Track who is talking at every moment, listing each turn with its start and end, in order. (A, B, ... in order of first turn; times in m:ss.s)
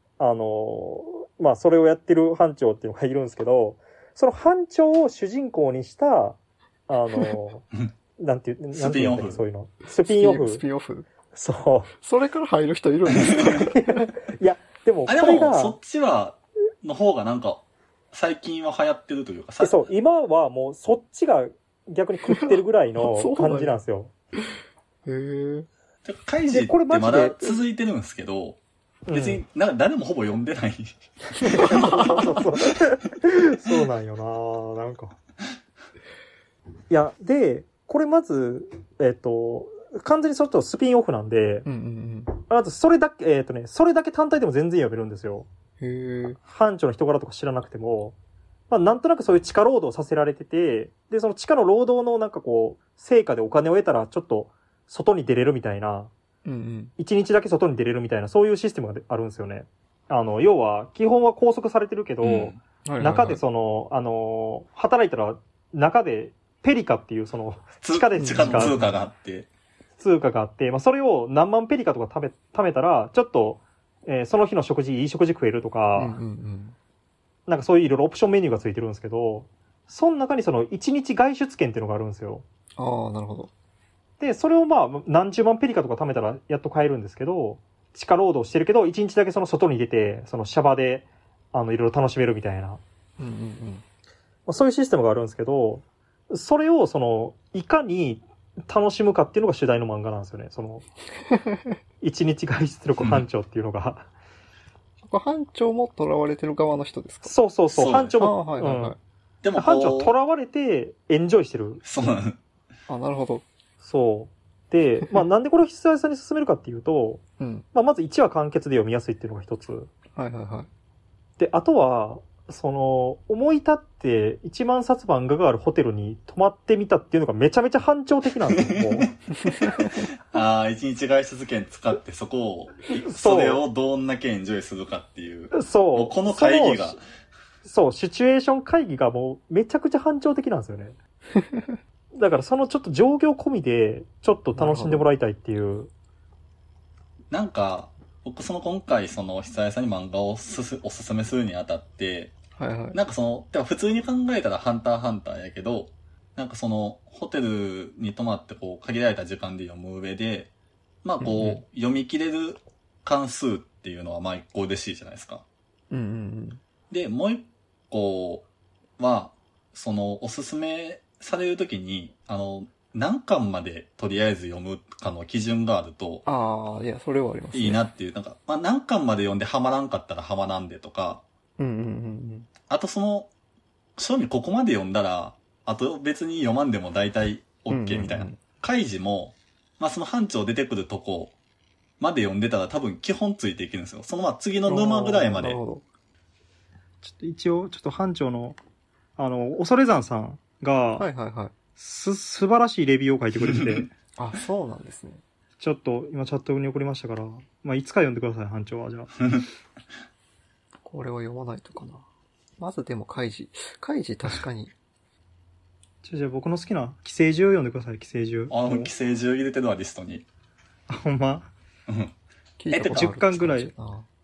0:00.2-0:07.6 A
0:08.2-0:10.6 A
0:08.7-0:09.4 B
0:10.0-0:11.1 C
0:11.3-0:11.9 A
0:11.9-0:13.9 C
0:13.1-0:15.8 A
0:13.2-0:13.5 B
0:15.0-0:19.8 B
0:19.6-0:24.1 A
0:22.3-0:23.7 C
0:25.0-0:25.7 C
0:26.0-0:28.6 B
0:26.5-0:27.6 A
0:29.1-0:29.4 A
0:29.1-0:32.4 B
0:31.4-0:35.2 A
0:31.6-0:32.2 C
0:36.9-0:41.6 A
0:41.6-0:42.3 C
0:42.3-0:45.5 A
0:45.8-0:46.4 C
0:46.4-0:48.2 A
0:48.7-0:56.1 A
0:56.4-0:56.9 C
0:57.0-1:08.8 A
1:02.2-1:02.6 B
1:02.8-1:03.4 C
1:07.8-1:09.5 B
1:08.2-1:09.0 C
1:10.0-1:16.2 A
1:15.9-1:16.7 C
1:17.5-1:22.4 A
1:22.8-1:23.5 C
1:24.2-1:32.8 A
1:33.2-1:33.8 C
1:34.4-1:40.8 A
1:42.0-1:44.1 A
1:43.0-1:43.2 B
1:45.0-1:47.4 C
1:47.2-1:49.0 A
1:47.7-1:48.2 B
1:48.2-1:49.0 C
1:49.4-1:50.1 B
1:49.5-1:52.1 A
1:51.8-1:52.4 B
1:52.9-1:53.4 C
1:53.8-1:59.9 A
1:57.4-1:57.6 C
2:00.1-2:00.7 C
2:01.4-2:09.1 A
2:08.7-2:09.0 B
2:09.4-2:10.0 C
2:09.6-2:17.0 B
2:12.9-2:13.6 A
2:15.5-2:17.0 A
2:17.6-2:21.0 A
2:21.3-2:21.8 C
2:22.1-2:25.9 A
2:24.5-2:25.1 C
2:27.3-2:32.3 B
2:32.5-2:33.0 C
2:32.9-2:40.5 B
2:41.0-2:45.4 B
2:41.2-2:41.6 C
2:45.9-2:46.6 C
2:46.9-2:48.5 B
2:49.0-2:56.2 B
2:56.2-2:57.8 C
2:57.5-3:01.2 B
3:01.6-3:02.5 C
3:02.7-3:03.3 B
3:04.0-3:11.4 B
3:07.7-3:08.4 C
3:12.0-3:15.6 B
3:14.6-3:15.8 C
3:17.0-3:18.6 A
3:19.2-3:21.1 A
3:21.0-3:21.5 C
3:21.7-3:23.9 A
3:23.4-3:23.8 B
3:24.2-3:25.2 C
3:25.6-3:29.1 A
3:30.8-3:32.0 C
3:32.6-3:34.7 C
3:36.0-3:38.9 A
3:38.5-3:40.2 B
3:40.9-3:41.5 A
3:41.9-3:42.1 B
3:42.6-3:44.1 C
3:42.7-3:43.7 A
3:42.7-3:43.0 B